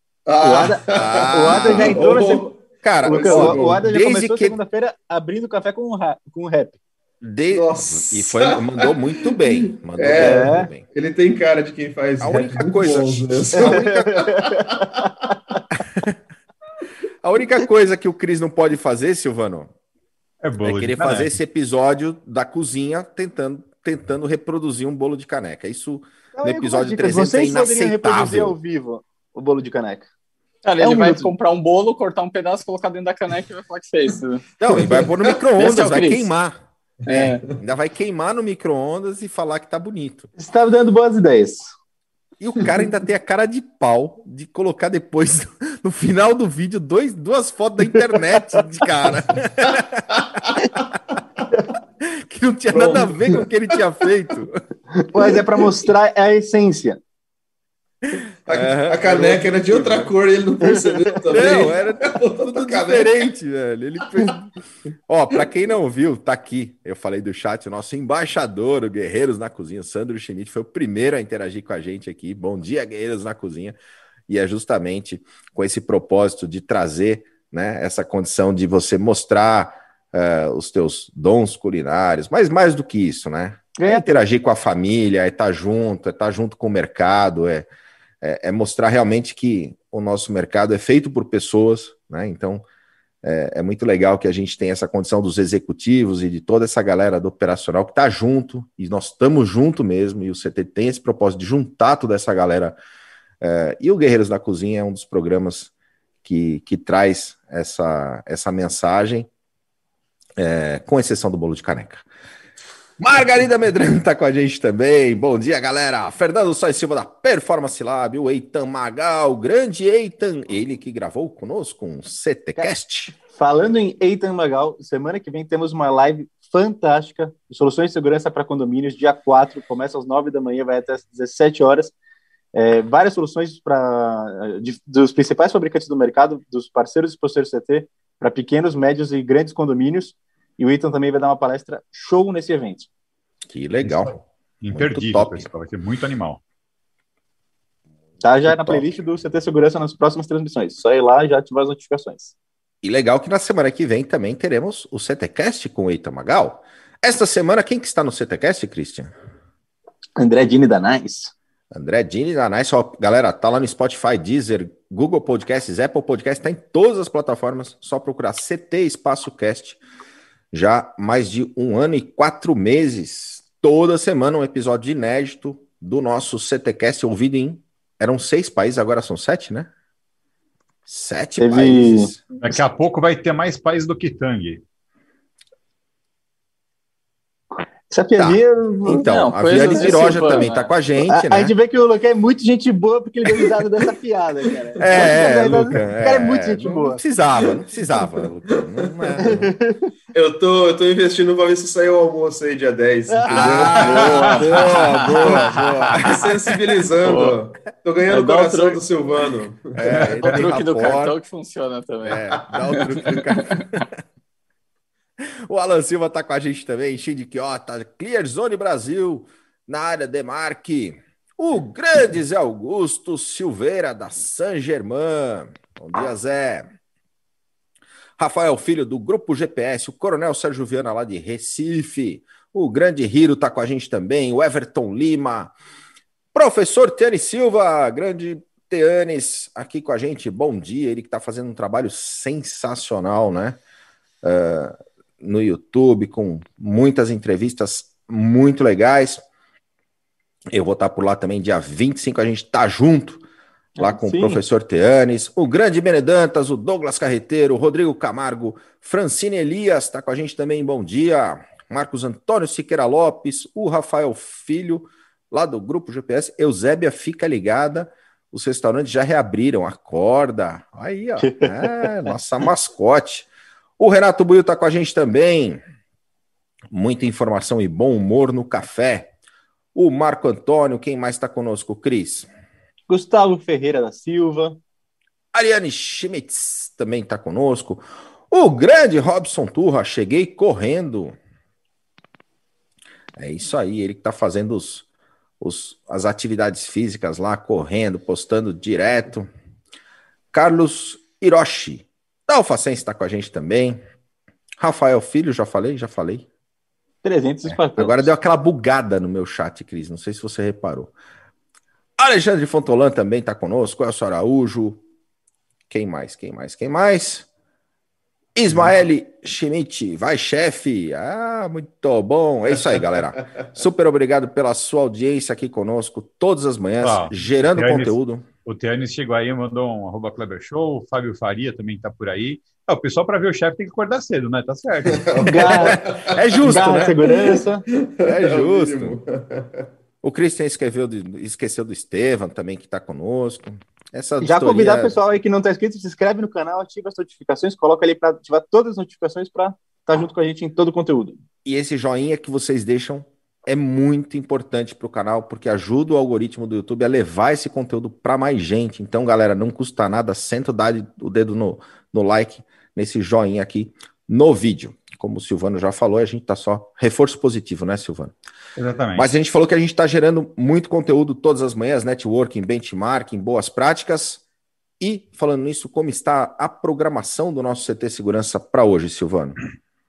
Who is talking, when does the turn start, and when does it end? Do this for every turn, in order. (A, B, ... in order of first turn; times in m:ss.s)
0:00.2-0:03.8 A
0:00.4-0:02.5 B
0:00.9-0:02.3 C
0:02.8-0:04.6 C
0:03.0-0:06.8 B
0:07.2-0:10.8 C
0:07.5-0:15.1 A
0:10.1-0:10.7 B
0:12.2-0:14.0 C
0:13.6-0:14.5 B
0:17.2-0:19.7 C
0:20.4-0:21.3 D
0:20.6-0:28.5 C
0:26.4-0:30.1 B
0:30.6-0:34.4 E
0:30.8-0:31.3 B
0:34.6-0:36.6 C
0:35.6-0:36.3 E
0:37.0-0:37.4 E
0:37.5-0:40.3 C
0:40.4-0:41.7 B
0:42.4-0:50.5 C
0:52.0-0:54.6 C
0:52.7-0:53.4 A
0:55.1-0:57.0 B
0:58.1-1:00.1 C
0:58.5-1:03.3 A
1:01.3-1:04.5 C
1:05.1-1:13.8 C
1:14.3-1:27.7 C
1:23.8-1:24.2 B
1:28.2-1:32.6 C
1:33.2-1:42.8 C
1:43.4-1:45.7 C
1:46.2-1:49.3 C
1:50.4-1:52.0 C
1:53.0-2:03.1 C
2:03.3-2:11.9 B
2:12.5-2:22.9 B
2:23.5-2:25.5 C
2:23.8-2:26.4 D
2:28.2-2:32.3 B
2:28.5-2:28.8 C
2:32.8-2:39.1 C
2:40.2-2:41.3 B
2:41.7-2:49.8 C
2:50.5-2:59.7 C
3:00.8-3:02.2 C
3:01.4-3:02.1 B
3:02.4-3:04.6 D
3:07.9-3:10.4 B
3:08.2-3:11.5 C
3:08.9-3:10.7 E
3:11.0-3:17.0 B
3:14.8-3:19.4 C
3:19.2-3:19.8 B
3:20.1-3:30.1 A
3:23.1-3:24.6 B
3:23.3-3:26.2 C
3:23.8-3:26.1 E
3:27.0-3:27.4 E
3:28.1-3:28.8 E
3:29.8-3:31.1 C
3:29.9-3:32.2 E
3:32.0-3:33.9 C
3:32.7-3:33.6 E
3:35.5-3:46.7 C
3:48.2-3:55.5 C
3:56.3-4:03.6 C
4:04.2-4:09.2 C
4:10.5-4:13.2 C
4:13.8-4:14.4 B
4:13.8-4:33.3 C
4:31.2-4:31.9 B
4:33.8-4:35.6 C
4:36.7-4:39.1 C
4:39.7-4:42.3 C
4:42.9-4:44.6 B
4:45.3-4:51.2 C
4:53.2-4:54.8 C
4:55.4-4:59.3 C
5:00.3-5:03.8 C
5:04.6-5:06.2 C
5:07.0-5:08.1 B
5:07.4-5:10.9 C
5:12.0-5:14.8 C
5:15.7-5:17.3 C
5:18.4-5:28.2 C
5:26.8-5:27.9 D
5:28.4-5:35.2 D
5:35.0-5:36.2 A
5:35.2-5:35.8 B
5:35.4-5:37.0 C
5:36.4-5:37.6 B
5:37.0-5:39.7 A
5:38.0-5:39.0 C
5:40.0-5:45.0 C
5:44.2-5:51.2 B
5:51.4-6:08.1 C
6:08.6-6:09.1 D
6:08.9-6:14.2 C
6:14.8-6:19.4 C